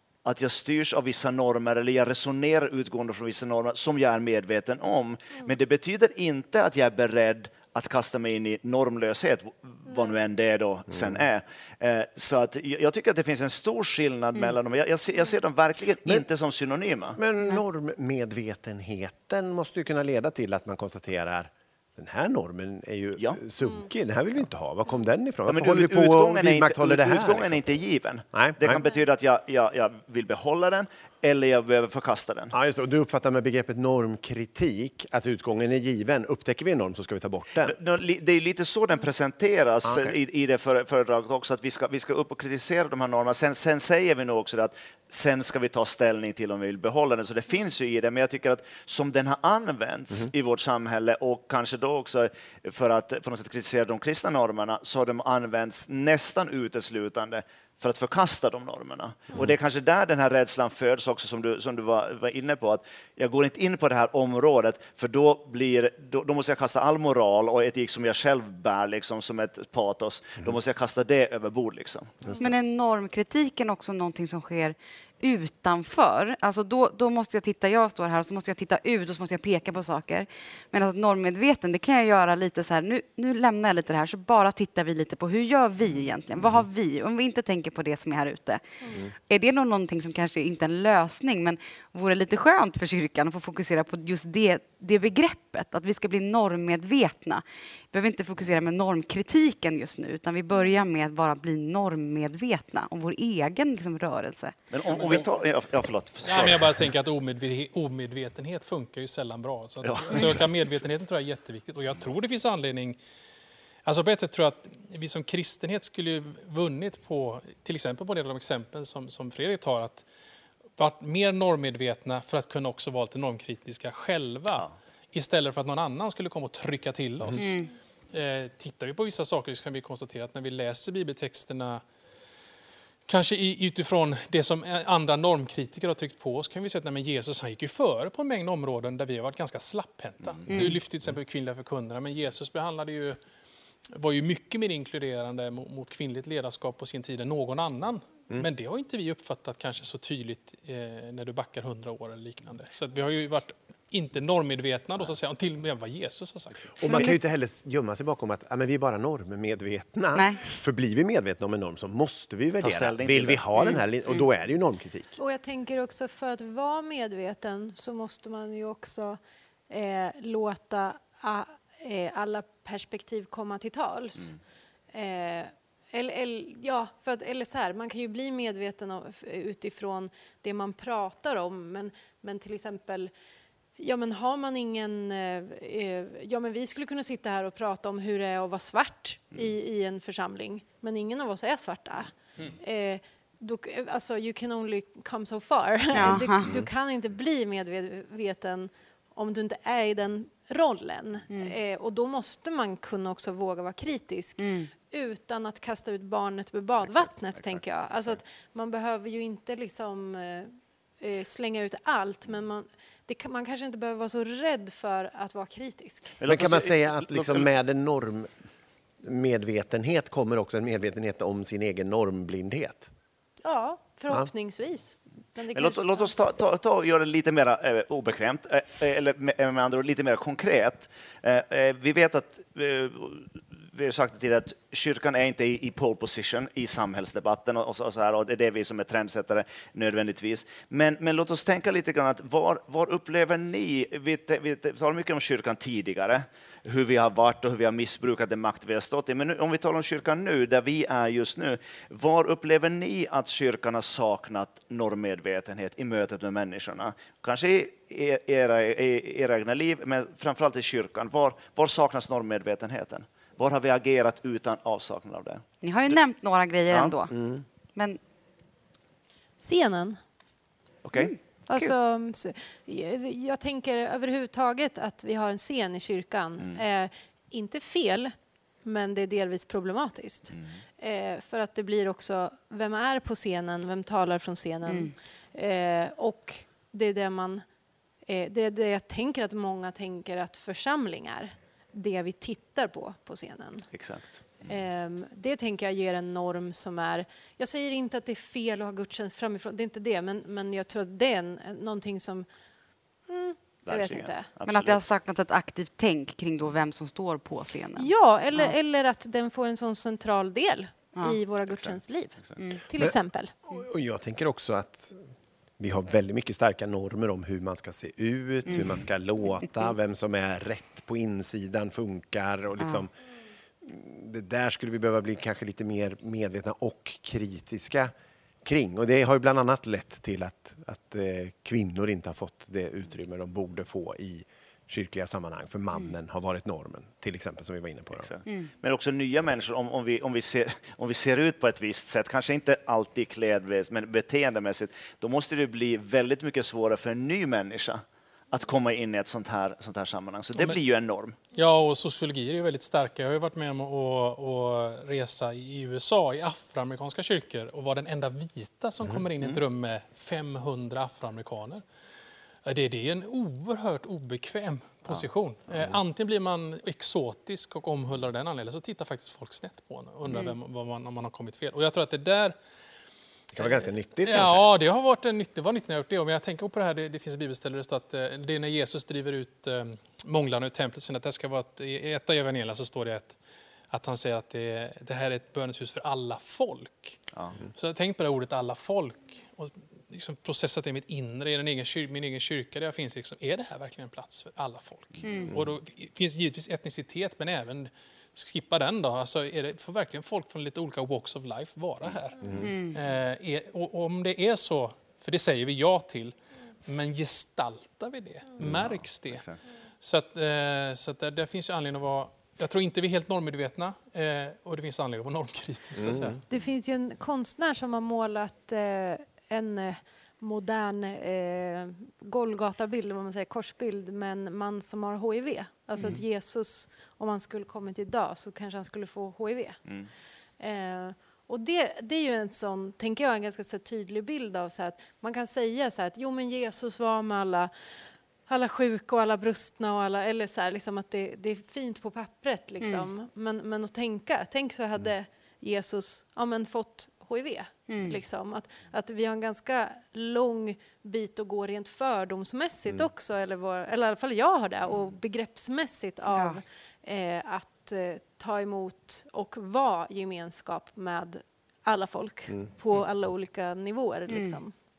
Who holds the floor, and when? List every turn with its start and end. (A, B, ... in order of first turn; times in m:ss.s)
0:00.2-0:17.2 A
0:10.9-0:11.2 B
0:17.2-0:27.6 B
0:25.4-0:32.5 A
0:28.3-0:28.8 B
0:32.5-0:37.8 B
0:37.6-1:12.3 A
0:39.8-0:40.2 B
1:12.4-1:28.6 C
1:29.3-1:44.5 C
1:44.7-1:46.8 A
1:44.8-1:45.3 D
1:46.2-1:53.0 D
1:49.8-1:50.4 A
1:53.8-2:00.0 D
2:00.8-2:07.5 D
2:07.4-2:07.7 C
2:08.1-2:11.8 D
2:13.0-2:23.2 D
2:20.2-2:20.5 A
2:23.9-2:36.9 D
2:36.8-2:45.2 B
2:40.1-2:40.4 C
2:42.6-2:43.6 A
2:45.2-2:54.4 E
2:54.9-3:03.1 E
3:03.8-3:36.2 E
3:16.0-3:16.5 C
3:21.3-3:21.5 C
3:24.4-3:24.7 C
3:27.3-3:27.6 A
3:36.2-3:37.5 A
3:36.2-3:38.3 B
3:39.0-3:42.9 B
3:43.4-3:46.1 E
3:45.5-4:25.9 A
4:25.6-4:27.2 C
4:26.7-4:26.9 A
4:27.1-4:27.4 B
4:29.4-4:30.0 E
4:30.8-4:31.1 A
4:31.0-4:31.7 C
4:31.5-4:47.4 E
4:40.3-4:40.6 A
4:44.6-4:44.9 C
4:48.0-4:53.7 E
4:53.7-4:54.5 A
4:54.4-5:02.3 E
5:03.1-5:04.3 E
5:03.6-5:04.8 A
5:04.4-5:08.5 C
5:07.8-5:13.3 E
5:11.5-5:12.4 A
5:12.4-5:12.6 C
5:13.4-5:15.1 B
5:15.6-5:22.9 B
5:23.6-5:27.9 B
5:28.4-5:38.1 B
5:37.9-5:51.2 A
5:51.3-6:01.6 D
6:02.4-6:12.4 D
6:13.3-6:14.4 B
6:14.0-6:23.2 D
6:23.7-6:27.0 D
6:27.5-6:49.2 D
6:35.0-6:35.3 C
6:42.2-6:42.5 B
6:42.4-6:42.8 C
6:49.0-6:49.4 A
6:49.8-6:56.2 D
6:55.8-6:56.2 B
6:56.3-7:09.6 E
7:10.4-7:17.5 E
7:18.2-7:44.5 E
7:22.6-7:22.9 C
7:27.7-7:28.0 C
7:36.1-7:36.4 C
7:44.1-7:44.4 C